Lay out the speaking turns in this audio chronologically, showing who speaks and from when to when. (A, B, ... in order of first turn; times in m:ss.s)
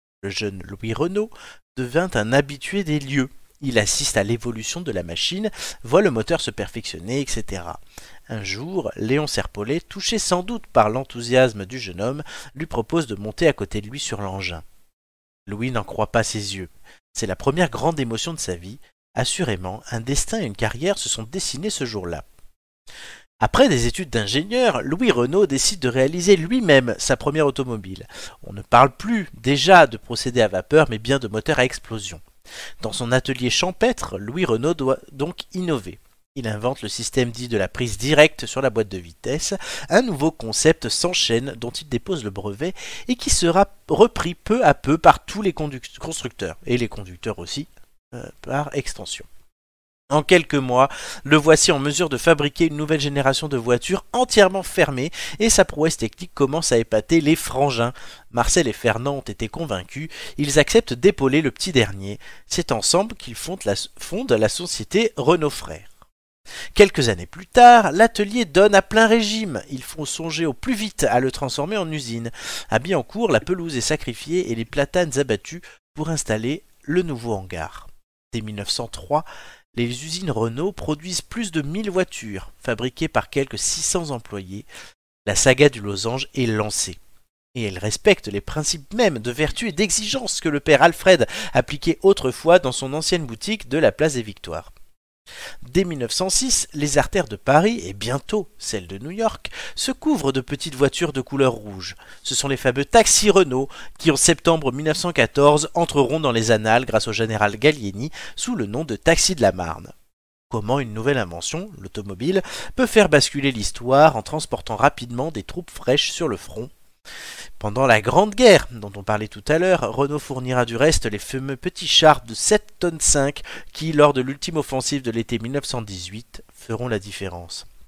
0:00.2-0:14.6 A
0:15.5-0:22.2 A
0:23.4-0:32.2 A
0:32.8-0:49.3 A
0:50.1-1:05.9 A
1:06.7-1:24.7 A
1:25.3-1:27.0 A
1:27.6-1:34.7 A
1:35.6-1:49.9 A
1:50.5-1:56.7 A
1:57.6-2:07.7 A